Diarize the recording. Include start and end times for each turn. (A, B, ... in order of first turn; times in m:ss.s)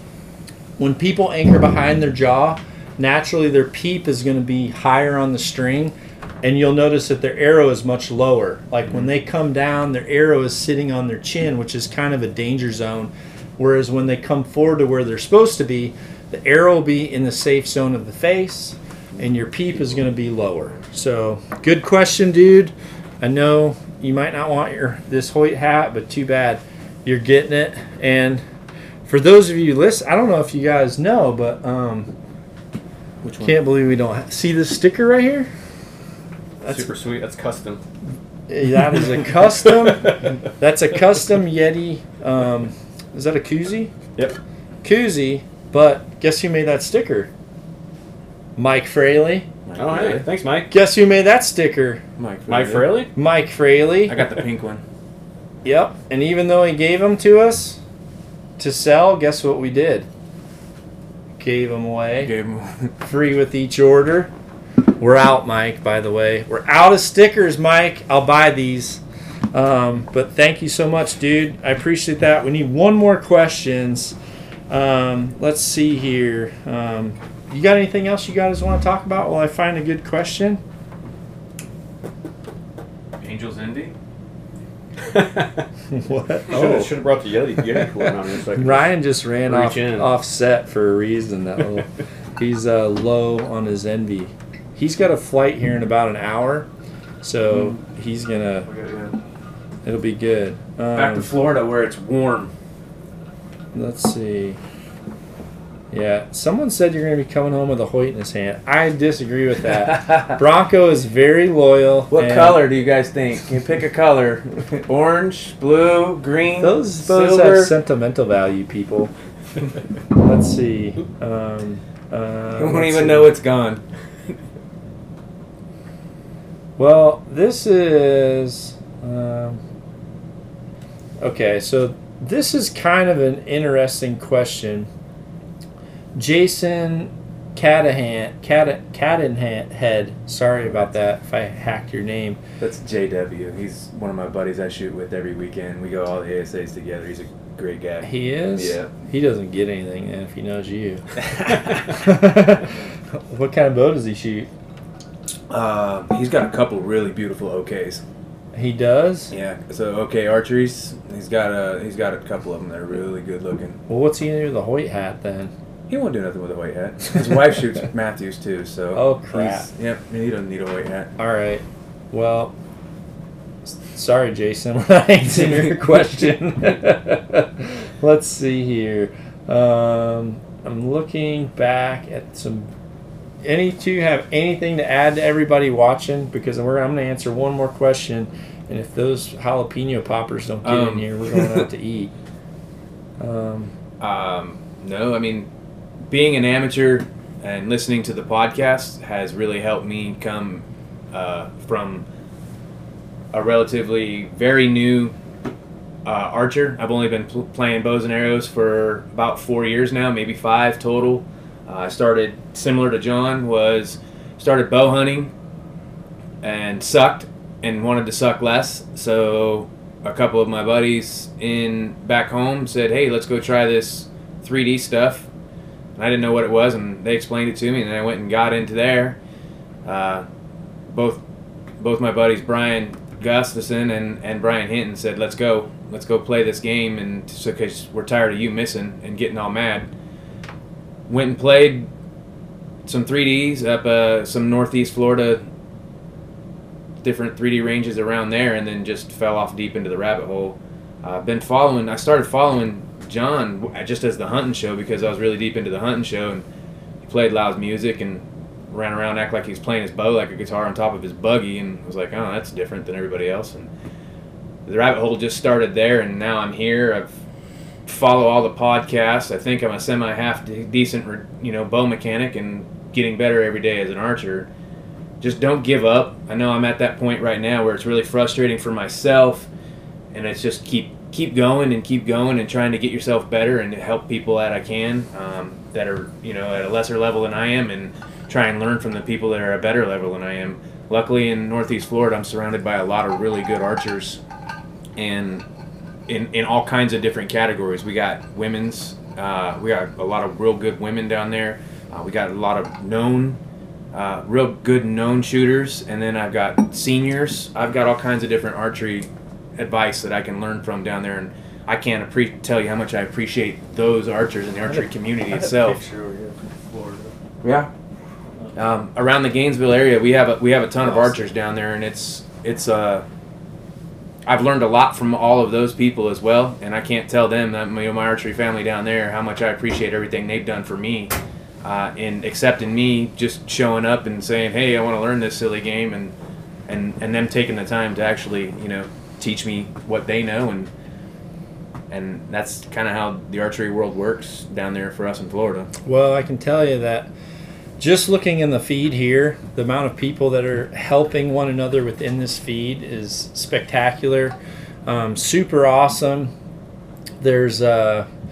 0:00.8-0:28.4 A
0:29.0-0:32.1 A
0:33.2-0:33.5 B
0:33.4-0:35.5 A
0:36.6-0:37.8 C
0:38.5-0:43.9 A
0:39.7-0:40.3 C
0:44.8-0:47.3 A
0:48.6-0:49.5 A
0:49.6-0:50.2 B
0:49.8-0:50.7 C
0:50.7-0:52.0 A
0:52.2-0:53.0 B
0:52.5-0:53.1 C
0:53.1-0:54.2 A
0:54.1-0:54.8 B
0:55.6-0:57.8 A
0:58.6-1:00.0 A
1:01.4-1:02.3 A
1:02.2-1:02.9 B
1:03.0-1:04.3 A
1:05.0-1:09.0 A
1:09.5-1:14.2 A
1:14.7-1:20.6 A
1:23.2-1:23.9 B
1:25.0-1:25.6 C
1:25.9-1:26.9 A
1:26.5-1:28.9 C
1:28.0-1:36.7 A
1:29.5-1:30.1 C
1:37.2-1:38.7 A
1:38.7-1:39.2 B
1:39.8-1:41.3 A
1:40.9-1:42.5 B
1:43.7-1:44.6 A
1:45.9-1:52.6 A
1:49.9-1:50.4 B
1:52.1-1:57.7 B
1:56.6-1:59.1 A
2:00.2-2:03.3 A
2:02.6-2:03.8 B
2:06.8-2:09.6 A
2:11.2-2:14.9 A
2:16.2-2:22.4 A
2:22.6-2:28.9 B
2:28.0-2:31.0 A
2:31.7-2:34.5 A
2:35.5-2:38.0 B
2:38.5-2:39.3 A
2:39.3-2:43.8 B
2:43.9-2:45.5 A
2:45.9-2:51.1 B
2:48.9-2:49.7 A
2:51.2-2:52.5 A
2:53.6-3:02.7 A
3:03.4-3:12.1 A
3:10.6-3:11.6 B
3:13.2-3:13.7 A
3:14.0-3:15.5 B
3:16.1-3:22.0 B
3:23.3-3:25.1 B
3:26.0-3:35.3 B
3:36.4-3:45.3 B
3:46.0-3:49.2 B
3:49.8-3:50.2 B
3:50.9-3:51.2 B
3:51.8-3:59.9 B
4:01.1-4:01.9 B
4:02.8-4:05.4 B
4:07.0-4:16.4 B
4:17.0-4:23.7 B
4:24.6-4:27.1 B
4:27.8-4:34.5 B
4:35.2-4:39.5 B
4:40.1-4:54.2 B
4:55.0-4:55.4 B
4:56.1-5:03.4 B
5:03.9-5:15.8 B
5:14.7-5:17.1 A
5:17.4-5:17.7 B
5:18.5-5:23.0 B
5:24.2-5:36.1 B
5:36.7-5:40.7 B
5:41.9-5:45.7 B
5:45.8-5:47.1 A
5:47.8-5:54.3 A
5:54.8-5:56.3 A
5:57.2-5:58.1 A